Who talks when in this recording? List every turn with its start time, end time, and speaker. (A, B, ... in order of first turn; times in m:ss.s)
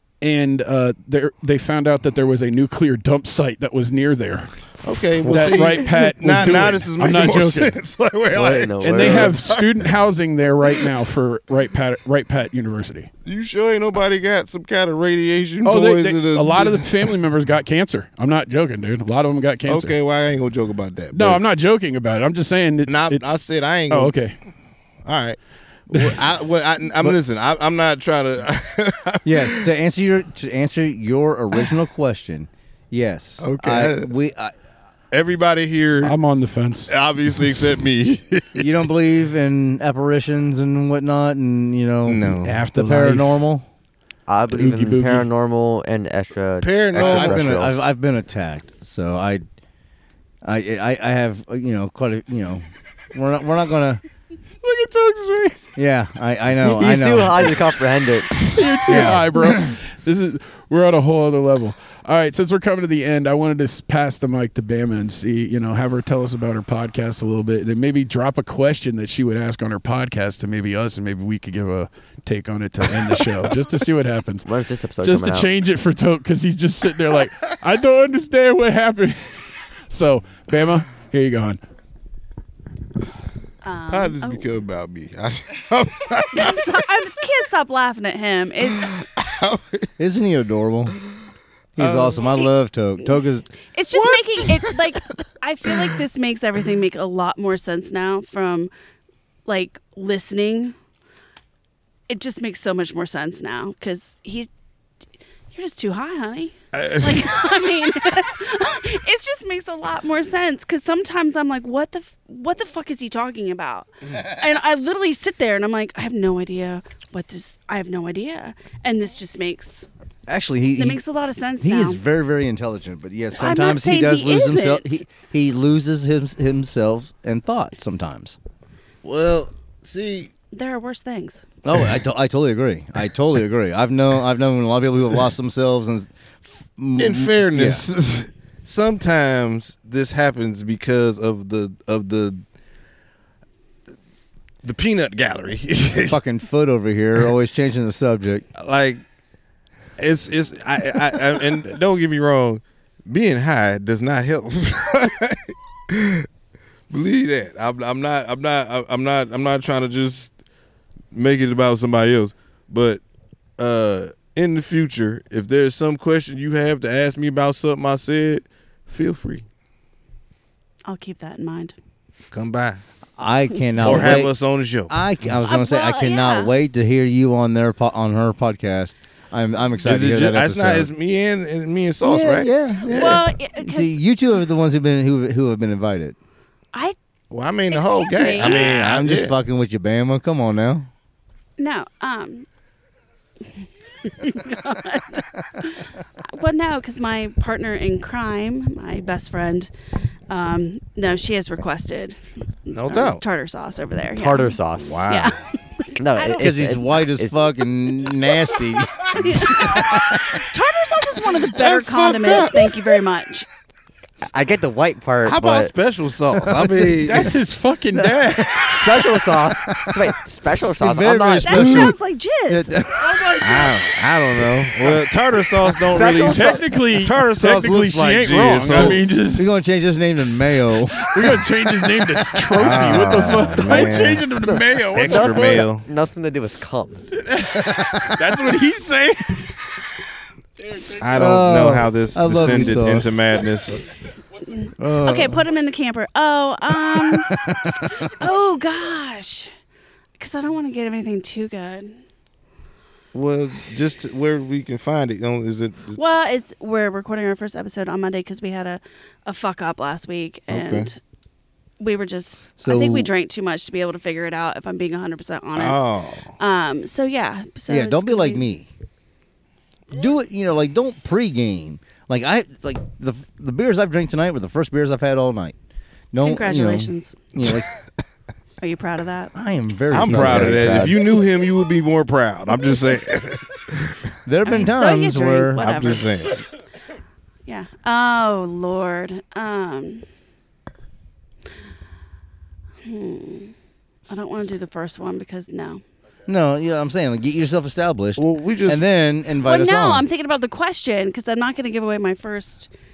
0:00.2-0:04.6 A
0:04.8-0:09.7 B
0:05.2-0:07.7 A
0:05.3-0:05.6 C
0:08.3-0:09.3 D
0:08.8-0:13.1 A
0:13.2-0:17.1 B
0:15.6-0:20.0 A
0:19.7-0:21.4 B
0:21.1-0:24.4 A
0:22.9-0:24.2 B
0:25.0-0:25.4 B
0:25.9-0:29.7 B
0:25.9-0:26.2 A
0:29.2-0:34.5 C
0:33.4-0:34.1 B
0:35.1-0:36.2 B
0:36.0-0:36.9 A
0:36.9-0:38.7 B
0:38.6-0:43.6 C
0:42.0-0:42.6 B
0:42.4-0:43.4 A
0:44.3-0:47.8 D
0:44.5-0:45.2 A
0:46.6-0:47.6 B
0:46.9-0:49.4 C
0:50.4-0:54.0 C
0:54.6-0:55.7 A
0:55.8-0:57.6 C
0:56.6-0:58.3 D
0:58.4-0:59.0 B
0:58.4-1:14.5 A
0:58.8-0:59.7 C
1:14.4-1:15.5 D
1:15.0-1:21.6 A
1:23.6-1:24.5 E
1:23.9-1:26.8 B
1:26.3-1:29.0 E
1:28.7-1:29.9 B
1:30.0-1:31.0 C
1:31.8-1:33.5 C
1:31.8-1:32.2 B
1:33.7-1:38.7 E
1:33.9-1:34.8 B
1:39.4-1:40.7 E
1:42.1-1:44.5 E
1:45.5-1:59.9 E
1:46.7-1:47.3 B
2:00.3-2:01.0 C
2:00.8-2:02.0 E
2:01.6-2:08.4 C
2:03.4-2:05.1 E
2:09.0-2:10.3 B
2:10.5-2:11.4 E
2:11.6-2:17.8 C
2:17.0-2:22.4 B
2:24.6-2:26.2 B
2:26.1-2:28.4 C
2:28.6-2:29.0 B
2:30.0-2:36.3 B
2:36.9-2:40.3 B
2:41.1-2:43.0 B
2:43.6-2:49.4 B
2:50.9-2:51.7 E
2:52.3-2:52.8 B
2:53.2-2:54.3 C
2:53.8-2:54.9 B
2:54.9-3:00.9 C
2:55.4-2:56.5 E
2:59.8-3:03.1 B
3:02.0-3:06.2 C
3:02.8-3:03.9 E
3:07.3-3:09.3 B
3:07.7-3:08.8 E
3:08.4-3:10.9 C
3:11.6-3:12.4 E
3:14.0-3:19.7 E
3:20.3-3:26.8 E
3:22.7-3:23.2 B
3:24.1-3:25.0 D
3:24.8-3:25.4 B
3:26.0-3:27.3 D
3:26.4-3:30.4 C
3:29.0-3:33.5 E
3:31.5-3:32.8 B
3:34.3-3:35.7 D
3:35.2-3:37.3 B
3:36.3-3:37.3 C
3:36.8-3:39.0 A
3:37.9-3:39.0 C
3:38.5-3:41.9 D
3:39.7-3:40.0 C
3:40.8-3:43.3 C
3:41.5-3:42.7 E
3:43.0-3:43.7 A
3:43.4-3:49.0 B
3:45.8-3:49.5 A
3:48.7-3:51.4 C
3:51.0-3:55.6 A
3:52.3-3:53.4 C
3:52.5-3:54.2 B
3:54.4-3:57.0 D
3:54.9-3:55.9 B
3:57.2-3:59.6 A
3:57.5-3:58.3 C
4:00.6-4:01.0 A
4:00.9-4:03.8 B
4:01.1-4:03.1 C
4:04.4-4:09.5 E
4:04.8-4:05.4 C
4:07.1-4:07.9 C
4:10.2-4:12.0 E
4:13.1-4:16.0 B
4:15.9-4:21.0 E
4:20.5-4:20.9 B
4:21.8-4:28.4 E
4:22.6-4:23.1 C
4:25.5-4:26.3 B
4:27.7-4:28.7 C
4:29.9-4:35.5 C
4:36.1-4:37.7 C
4:36.2-4:37.2 E
4:37.4-4:37.8 B
4:38.6-4:39.3 E
4:39.3-4:40.9 C
4:39.9-4:44.0 B
4:39.9-4:41.0 D
4:44.2-4:45.6 C
4:44.4-4:46.1 E
4:45.6-4:46.4 B
4:47.4-4:50.0 E
4:52.8-4:53.5 E
4:54.1-4:55.8 E
4:56.2-5:00.0 C
4:58.2-4:58.8 B
4:59.4-5:02.7 E